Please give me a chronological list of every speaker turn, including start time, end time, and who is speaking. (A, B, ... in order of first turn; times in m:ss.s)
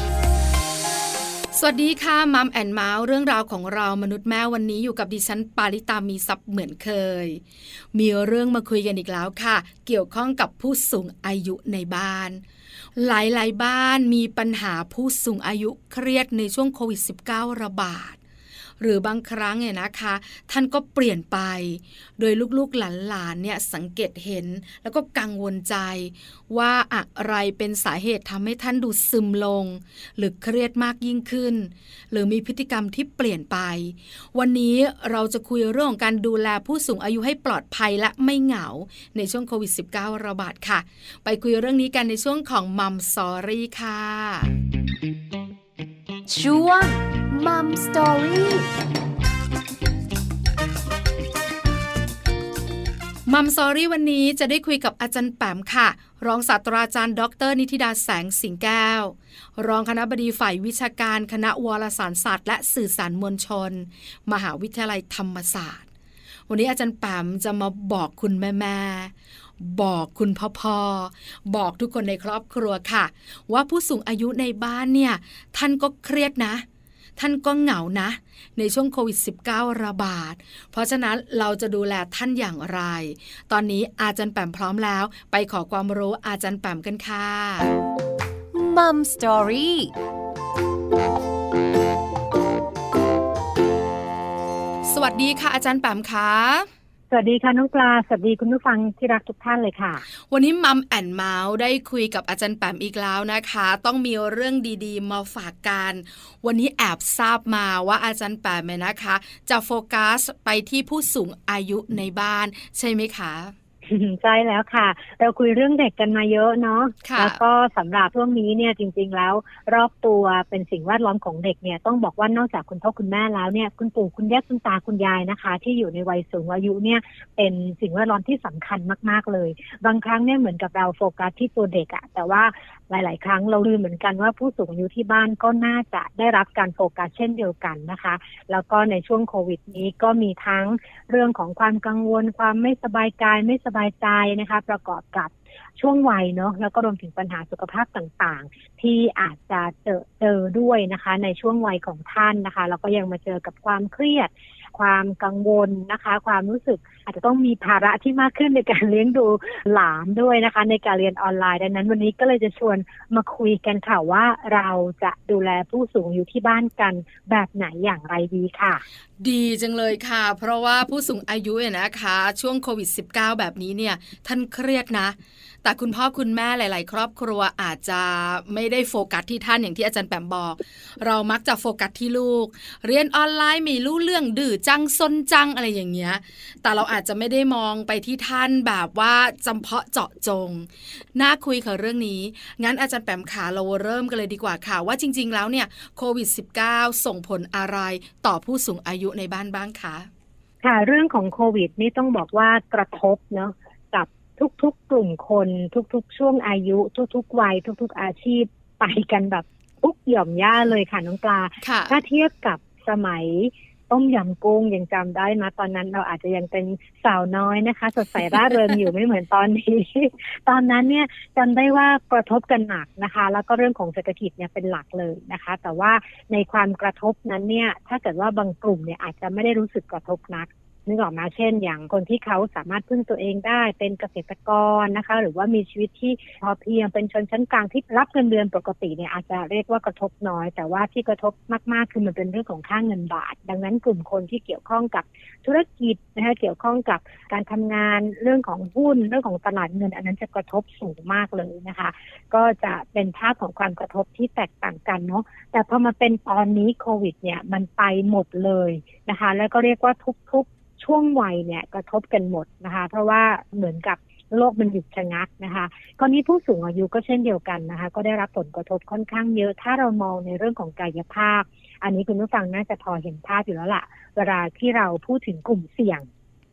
0:01.5-0:07.4 A
0:07.9-0:12.4 A
0:13.0-0:18.2 A
0:18.8-0:44.5 A
0:46.3-0:48.7 B
0:53.2-1:05.9 A
1:06.5-1:16.6 A
1:17.2-1:27.7 A
1:28.5-1:29.9 B
1:34.8-1:36.7 A
1:37.1-1:40.0 C
1:40.3-1:53.5 A
1:53.8-2:48.8 C
1:57.0-1:57.4 A
2:49.2-3:20.1 A
3:20.6-4:36.1 C
3:31.6-3:31.9 A